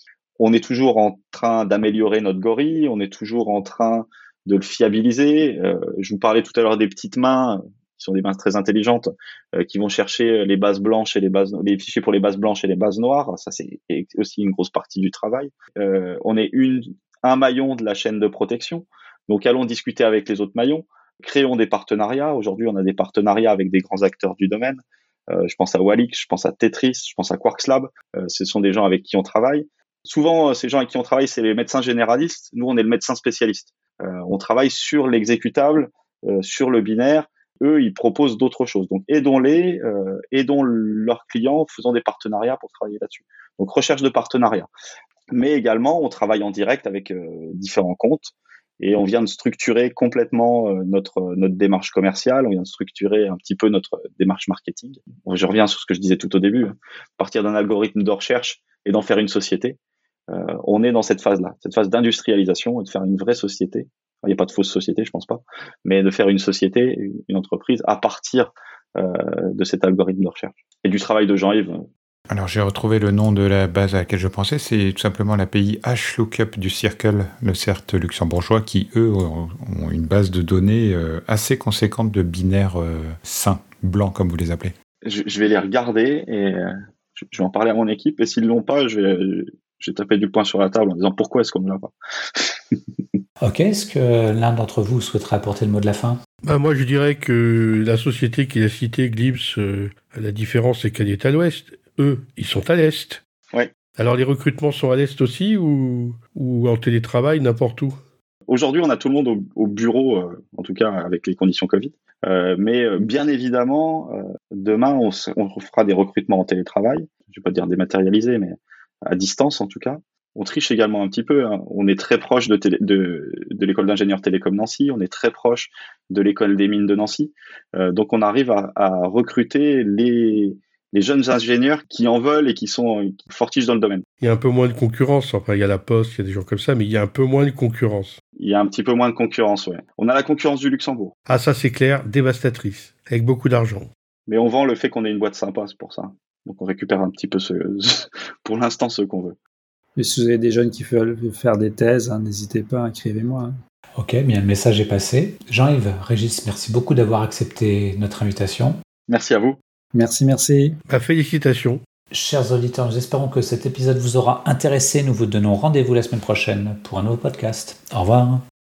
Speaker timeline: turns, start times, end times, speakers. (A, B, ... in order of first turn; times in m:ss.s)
0:00.4-0:44.7 A
0:45.3-0:59.8 A
1:00.3-1:11.9 A
1:12.3-1:24.7 B
1:25.0-1:32.8 A
1:33.4-1:36.2 C
1:36.4-1:43.2 D
1:44.0-1:48.0 D
1:48.5-2:14.0 A
2:14.2-2:18.2 D
2:18.4-2:21.1 A
2:21.3-2:23.9 D
2:24.3-2:29.4 A
2:30.0-2:33.6 E
2:34.0-2:38.8 C
2:39.1-2:39.6 A
2:39.9-2:40.8 E
2:40.9-2:41.8 D
2:42.1-2:48.4 C